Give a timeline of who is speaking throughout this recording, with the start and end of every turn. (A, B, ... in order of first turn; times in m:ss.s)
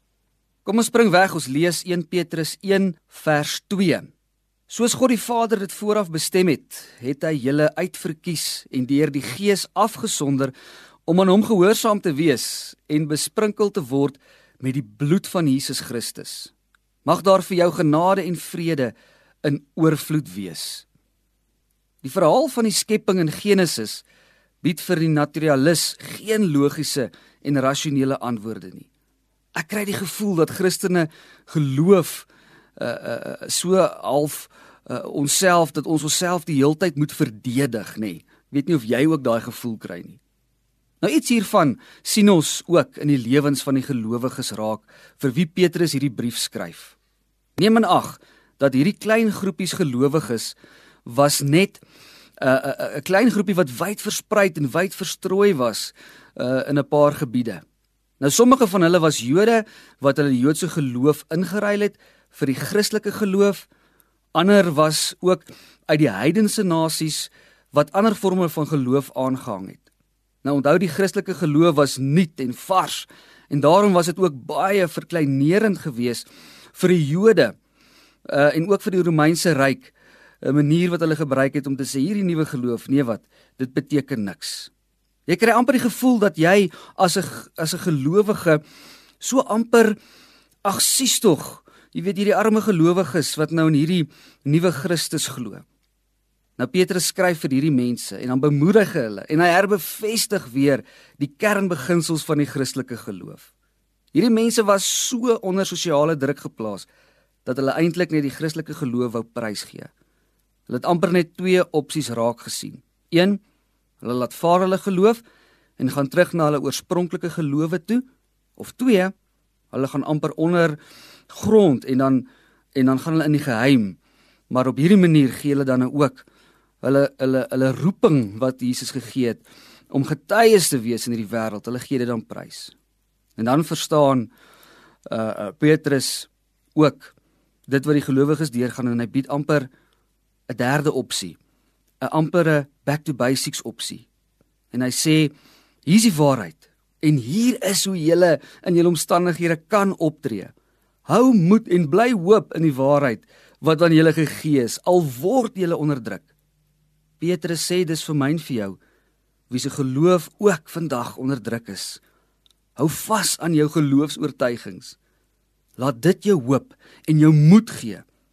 0:00.6-0:04.1 A
0:04.7-0:10.5 A
0:11.1-0:16.5 A
0:17.0-0:18.9 A
0:19.4-0:20.8 A
0:22.0-0:24.0 A
0:24.6-0:28.9 A
0:29.5-0:40.2 A
0:41.0-0:47.0 A
0:47.6-0:51.8 A
0:52.4-0:57.6 A
0:58.2-1:03.7 A
1:04.3-1:09.8 A
1:10.4-1:17.5 A
1:18.2-1:24.7 A
1:25.3-1:28.6 A
1:29.2-1:30.0 A
1:30.6-1:35.6 A
1:36.6-1:43.5 A
1:44.1-1:46.9 A
1:47.4-1:49.9 A
1:50.7-1:53.4 A
1:54.0-1:55.2 A
1:55.8-1:58.0 A
1:58.6-1:59.1 A
1:59.7-2:00.8 A
2:01.3-2:04.0 A
2:04.5-2:06.2 A
2:06.8-2:12.7 A
2:13.4-2:14.3 A
2:15.0-2:17.1 A
2:17.7-2:19.7 A
2:20.5-2:21.4 A
2:22.0-2:24.1 A
2:24.7-2:25.3 A
2:25.8-2:30.5 A
2:31.1-2:36.3 A
2:37.2-2:38.8 A
2:39.5-2:42.0 A
2:42.8-2:45.0 A
2:45.8-2:48.0 A